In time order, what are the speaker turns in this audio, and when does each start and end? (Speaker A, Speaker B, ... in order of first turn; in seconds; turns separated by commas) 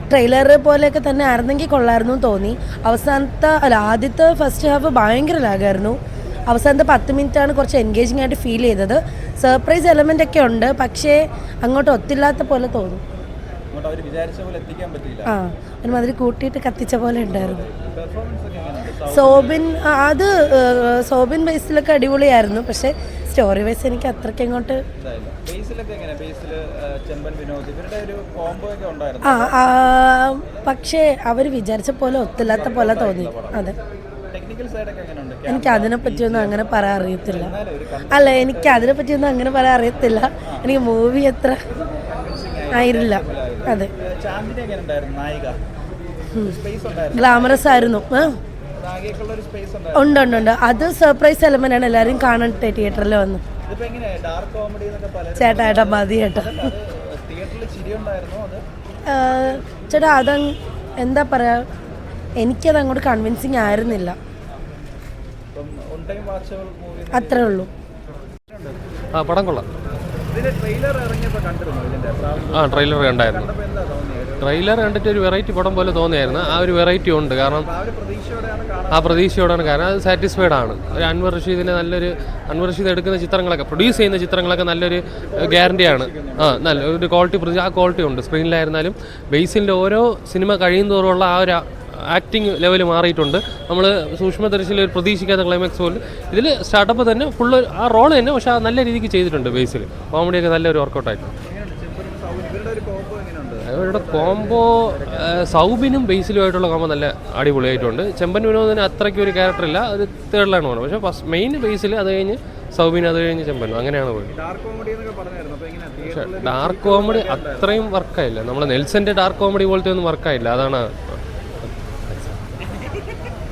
Speaker A: 0.1-6.0, Speaker A: 6.5-13.0, Speaker B: 13.7-15.4, Speaker A: 15.3-17.6, Speaker B: 17.2-19.7, Speaker A: 19.1-24.8, Speaker B: 25.0-29.9, Speaker A: 29.2-33.7, Speaker B: 30.5-30.7, Speaker B: 32.4-33.8, Speaker B: 34.3-39.0, Speaker A: 35.5-37.5, Speaker A: 38.1-41.6, Speaker B: 40.0-40.8, Speaker B: 41.7-45.6, Speaker A: 42.7-43.9, Speaker B: 46.4-50.6, Speaker A: 47.1-48.3, Speaker A: 50.0-53.4, Speaker B: 53.6-58.6, Speaker A: 55.4-56.7, Speaker A: 59.1-61.6, Speaker A: 62.4-64.2, Speaker B: 63.6-64.0, Speaker B: 65.5-67.7, Speaker A: 67.1-67.7, Speaker B: 68.5-68.8, Speaker C: 69.2-69.7, Speaker B: 70.3-74.6, Speaker C: 72.5-73.5, Speaker C: 74.4-77.7, Speaker B: 76.3-76.6, Speaker B: 77.6-79.6, Speaker C: 78.9-101.3, Speaker B: 83.8-84.1, Speaker B: 85.2-86.9, Speaker B: 101.4-105.6, Speaker C: 103.7-114.3, Speaker B: 114.3-117.8, Speaker C: 116.1-121.2